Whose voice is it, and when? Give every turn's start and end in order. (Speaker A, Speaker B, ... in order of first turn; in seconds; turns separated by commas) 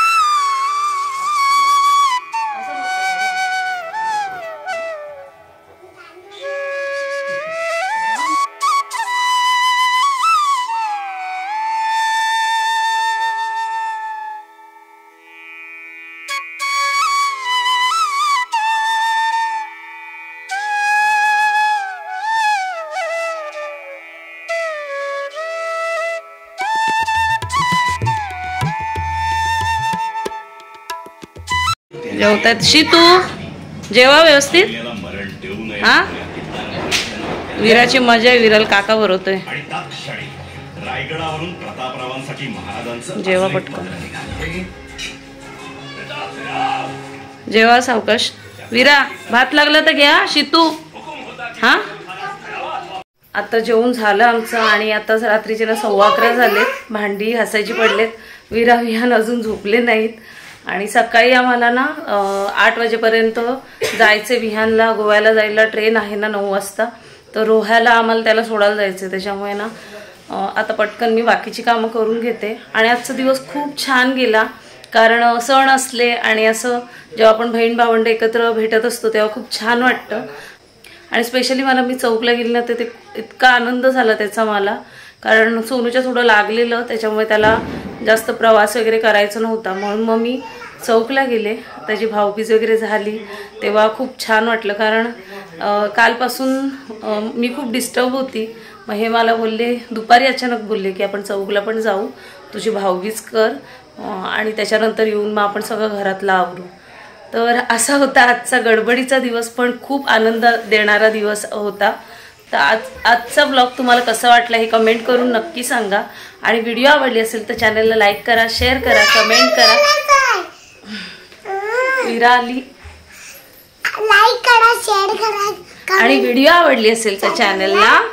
Speaker A: 2.6-3.2, Speaker A: 32.0-33.3, Speaker A: 33.9-34.8, Speaker B: 35.0-35.7, Speaker A: 35.8-36.2, Speaker B: 36.3-37.4, Speaker A: 37.5-39.5, Speaker B: 39.6-43.0, Speaker A: 43.1-44.1, Speaker A: 47.5-50.8, Speaker A: 51.5-51.9, Speaker A: 53.4-69.7, Speaker A: 70.3-80.3, Speaker A: 81.1-106.7, Speaker A: 107.3-112.0, Speaker A: 112.5-119.9, Speaker C: 120.0-120.5, Speaker C: 121.5-121.9, Speaker A: 122.0-122.7, Speaker C: 123.9-125.6, Speaker A: 125.9-128.0